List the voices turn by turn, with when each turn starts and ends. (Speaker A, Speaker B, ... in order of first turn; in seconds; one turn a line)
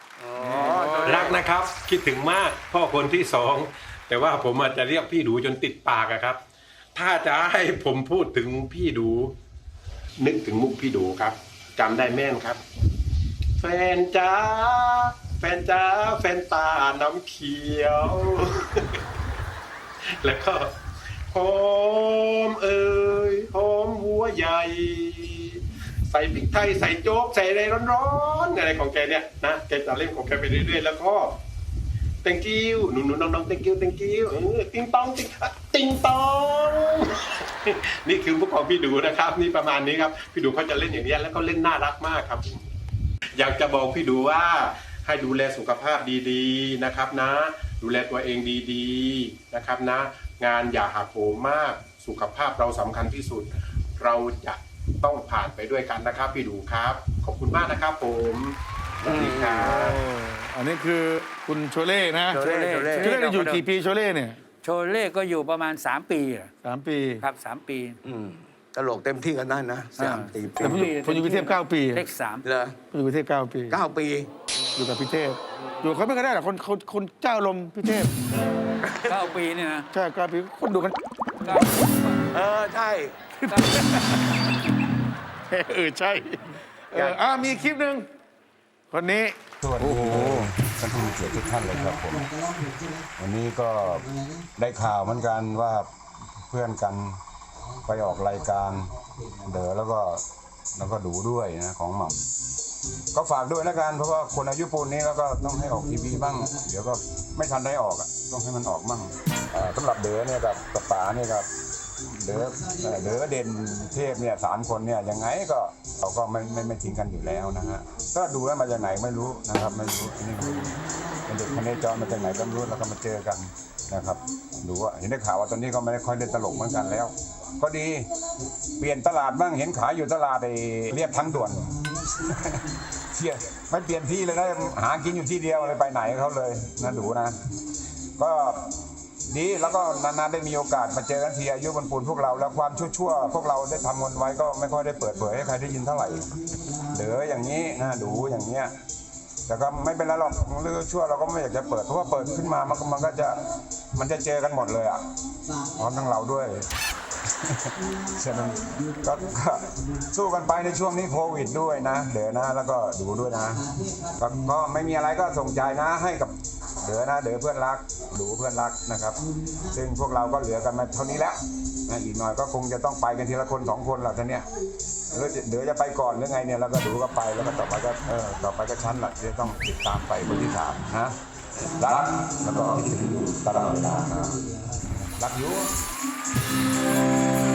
Speaker A: 0.2-1.4
Speaker B: 0.5-1.2
Speaker C: 1.0-6.4
Speaker C: 7.0-9.3
Speaker C: 10.2-12.6
Speaker C: 13.6-19.0
Speaker C: 20.2-20.7
Speaker C: 21.3-31.4
Speaker C: 32.2-42.6
Speaker C: 43.4-60.0
Speaker A: 59.0-59.8
Speaker B: 59.6-64.4
Speaker A: 62.3-63.2
Speaker D: 62.5-63.6
Speaker D: 64.6-66.5
Speaker B: 66.6-67.2
Speaker D: 67.2-68.0
Speaker A: 68.0-70.9
Speaker D: 70.0-72.5
Speaker B: 70.6-72.0
Speaker A: 72.4-72.8
Speaker B: 72.9-73.8
Speaker A: 73.7-74.3
Speaker B: 74.8-78.1
Speaker A: 78.8-79.3
Speaker D: 79.1-79.9
Speaker B: 79.9-81.0
Speaker D: 81.4-82.2
Speaker A: 82.3-83.2
Speaker B: 83.4-84.4
Speaker D: 83.5-83.9
Speaker B: 85.5-88.1
Speaker B: 88.9-90.4
Speaker E: 89.6-92.4
Speaker E: 93.2-95.9
Speaker E: 96.5-97.2
Speaker E: 97.8-100.2
Speaker E: 100.8-102.3
Speaker E: 103.1-111.5
Speaker E: 112.1-128.1
Speaker E: 128.8-137.4
Speaker E: 138.2-138.7
Speaker E: 139.3-148.7
Speaker E: 149.5-153.4
Speaker E: 153.9-155.0
Speaker E: 155.7-156.7
Speaker E: 157.4-174.5
Speaker E: 175.1-184.4
Speaker E: 185.0-185.7